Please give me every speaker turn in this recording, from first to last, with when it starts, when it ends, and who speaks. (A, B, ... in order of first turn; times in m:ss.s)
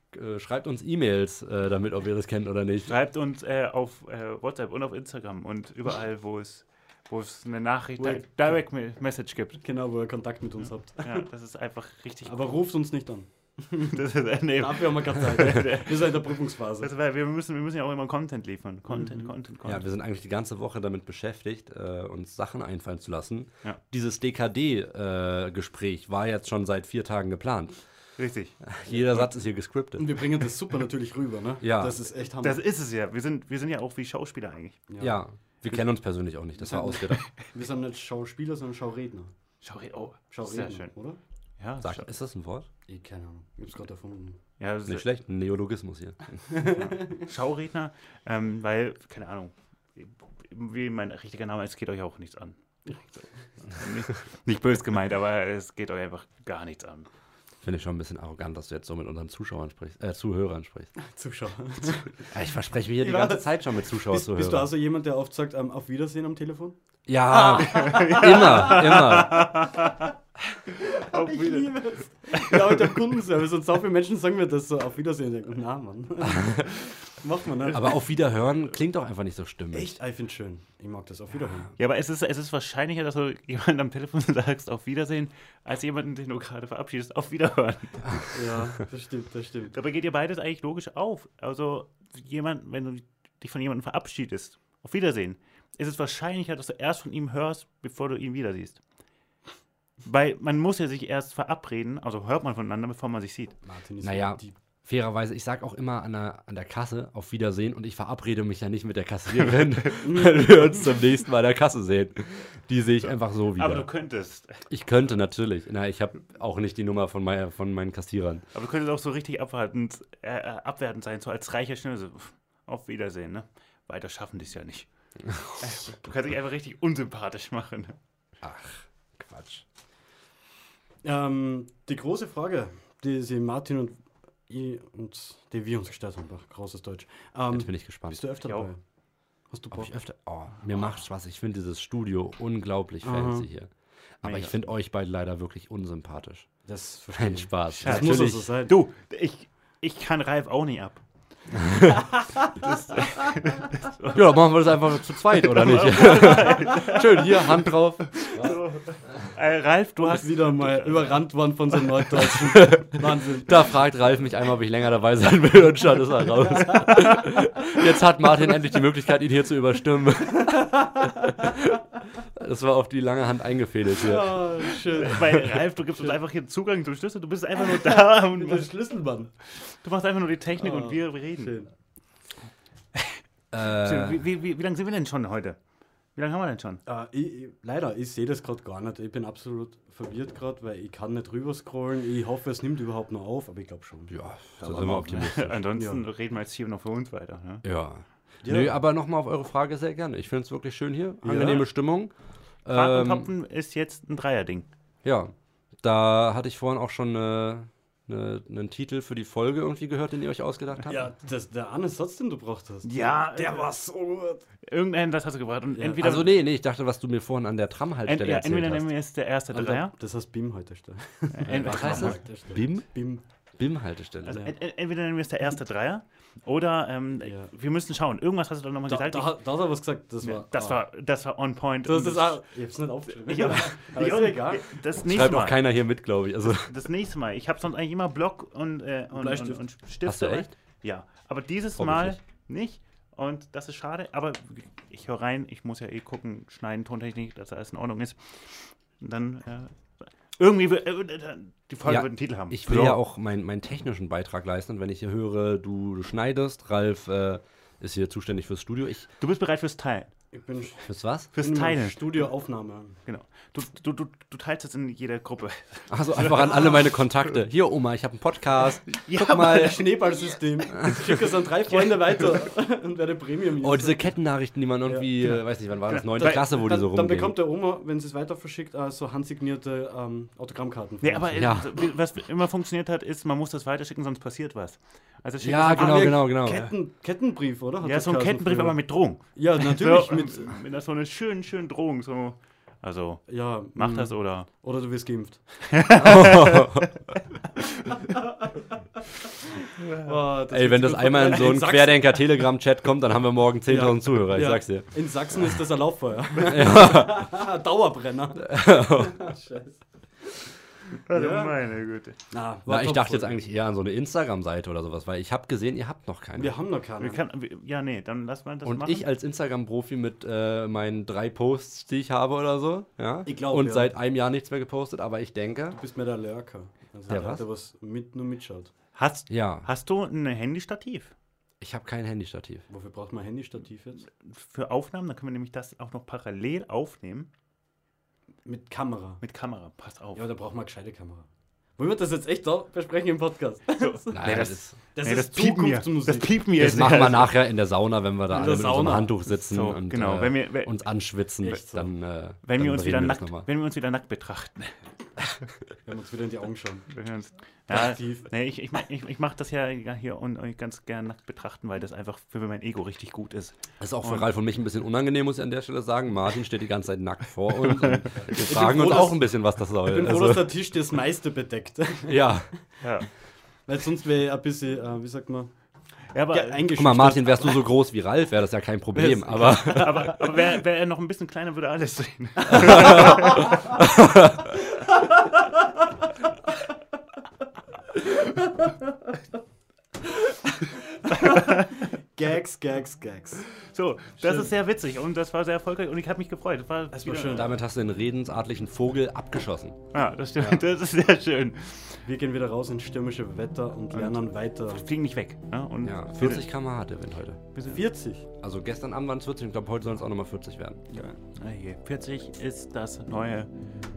0:00.1-0:03.0 A
0:02.9-0:09.6 B
0:08.0-0:08.3 C
0:09.6-0:11.3 C
0:11.0-0:12.6 B
0:12.2-0:16.9 C
0:13.8-0:19.8 B
0:18.9-0:19.3 C
0:19.6-0:27.8 A
0:28.2-0:28.6 B
0:28.6-0:30.2 A
0:30.0-0:32.6 C
0:31.6-0:32.0 A
0:32.4-0:34.8 B
0:34.9-0:35.2 C
0:35.0-0:37.3 A
0:36.6-0:39.3 C
0:39.6-0:40.9 B
0:40.3-0:41.2 C
0:41.6-0:42.1 B
0:41.8-0:42.7 A
0:42.9-0:44.4 C
0:44.6-0:45.0 B
0:44.9-0:46.5 A
0:46.5-0:47.2 C
0:46.6-0:57.1 B
0:57.6-1:00.9 A
1:01.0-1:02.3 C
1:02.3-1:04.7 A
1:03.0-1:06.8 C
1:07.1-1:09.6 A
1:07.3-1:09.1 C
1:07.5-1:10.1 B
1:10.7-1:18.0 C
1:10.8-1:11.7 B
1:12.3-1:12.8 B
1:17.7-1:19.9 A
1:19.7-1:21.7 C
1:21.8-1:28.2 B
1:28.3-1:29.7 C
1:29.7-1:38.8 B
1:40.0-1:43.6 B
1:43.6-1:44.5 C
1:44.0-1:53.9 A
1:53.6-1:54.7 B
1:54.7-1:58.4 A
1:58.5-2:04.9 B
2:05.6-2:08.0 B
2:08.4-2:09.6 A
2:11.0-2:18.8 C
2:17.5-2:18.2 A
2:18.4-2:18.7 B
2:19.5-2:19.9 C
2:19.7-2:23.7 A
2:23.0-2:23.5 C
2:24.2-2:26.5 A
2:24.2-2:24.6 B
2:26.7-2:28.8 C
2:27.1-2:28.6 A
2:27.7-2:31.0 B
2:31.6-2:32.0 A
2:32.6-2:34.3 B
2:34.1-2:38.5 A
2:35.4-2:37.5 B
2:38.1-2:41.3 B
2:40.0-2:43.7 C
2:42.4-2:54.8 A
2:53.9-2:56.1 C
2:54.9-2:58.7 B
2:57.6-2:59.3 C
2:59.5-3:01.6 B
3:00.6-3:01.7 C
3:02.9-3:05.6 B
3:03.5-3:04.2 A
3:06.2-3:06.8 B
3:06.9-3:14.1 C
3:14.1-3:15.7 A
3:14.6-3:17.6 B
3:15.8-3:16.0 C
3:17.6-3:22.1 A
3:18.4-3:18.8 C
3:21.2-3:21.7 C
3:22.6-3:23.3 A
3:22.7-3:24.7 B
3:25.0-3:31.1 A
3:30.9-3:34.4 C
3:32.8-3:33.7 B
3:34.7-3:36.4 B
3:35.7-3:36.1 C
3:36.0-3:38.9 A
3:38.0-3:39.9 B
3:39.5-3:43.2 C
3:41.3-3:42.2 B
3:41.5-3:42.9 A
3:43.6-3:44.5 A
3:44.2-3:49.4 B
3:47.2-3:47.5 C
3:48.9-3:50.8 C
3:50.2-3:52.4 B
3:51.8-3:54.7 C
3:53.1-3:55.6 B
3:55.0-3:56.7 A
3:56.6-4:08.2 B
3:59.1-3:59.7 C
4:00.0-4:00.5 A
4:01.8-4:02.2 A
4:09.0-4:13.0 B
4:11.8-4:19.1 A
4:19.2-4:20.1 B
4:20.3-4:23.0 C
4:20.9-4:21.3 A
4:21.3-4:22.0 B
4:23.0-4:26.9 B
4:25.9-4:29.8 A
4:28.9-4:29.8 B
4:29.2-4:34.1 C
4:30.8-4:31.1 A
4:33.6-4:37.4 A
4:34.8-4:35.4 C
4:35.9-4:36.5 B
4:36.1-4:41.5 C
4:41.0-4:46.7 B
4:41.3-4:41.7 A
4:45.4-4:46.7 A
4:45.7-4:50.6 C
4:47.8-4:54.5 B
4:53.3-4:56.5 C
4:55.7-4:57.9 B
4:56.0-4:56.9 A
4:59.8-5:00.1 B
4:59.9-5:02.5 C
5:00.5-5:04.9 A
5:03.7-5:09.8 C
5:06.4-5:07.3 A
5:08.4-5:09.3 A
5:11.0-5:12.2 B
5:11.1-5:11.6 C
5:12.3-5:13.4 C
5:12.7-5:16.6 A
5:16.4-5:17.2 C
5:17.0-5:19.0 B
5:18.6-5:25.8 A
5:23.2-5:23.9 C
5:25.7-5:28.7 C
5:27.1-5:27.4 A
5:28.9-5:31.1 B
5:29.3-5:29.7 A
5:31.6-5:32.7 A
5:32.7-5:34.0 C
5:34.2-5:37.3 B
5:38.4-5:39.2 C
5:39.2-5:40.3 B
5:40.1-5:46.4 C
5:43.8-5:47.3 B
5:44.1-5:44.8 A
5:46.6-5:53.5 A
5:48.3-5:49.2 C
5:49.5-5:50.8 B
5:51.4-5:51.9 C
5:52.4-5:54.8 B
5:55.8-5:56.9 C
5:56.9-6:04.3 B
5:57.7-5:58.3 C
6:03.8-6:10.5 A
6:08.3-6:12.6 C
6:12.0-6:12.5 A
6:12.8-6:13.1 B
6:13.7-6:15.5 C
6:16.1-6:16.7 B
6:16.3-6:17.7 C
6:16.7-6:20.1 A
6:18.9-6:20.1 C
6:19.6-6:23.6 B
6:22.6-6:22.9 A
6:23.8-6:24.3 A
6:30.6-6:33.5 C
6:31.2-6:31.6 B
6:33.7-6:37.5 B
6:36.9-6:37.6 C
6:37.3-6:39.8 A
6:39.9-6:42.0 B
6:40.4-6:40.6 A
6:42.0-6:44.8 C
6:43.9-6:46.4 B
6:45.8-6:47.4 A
6:47.6-6:48.3 C
6:48.4-6:50.8 A
6:50.9-6:51.2 C
6:51.3-6:53.5 B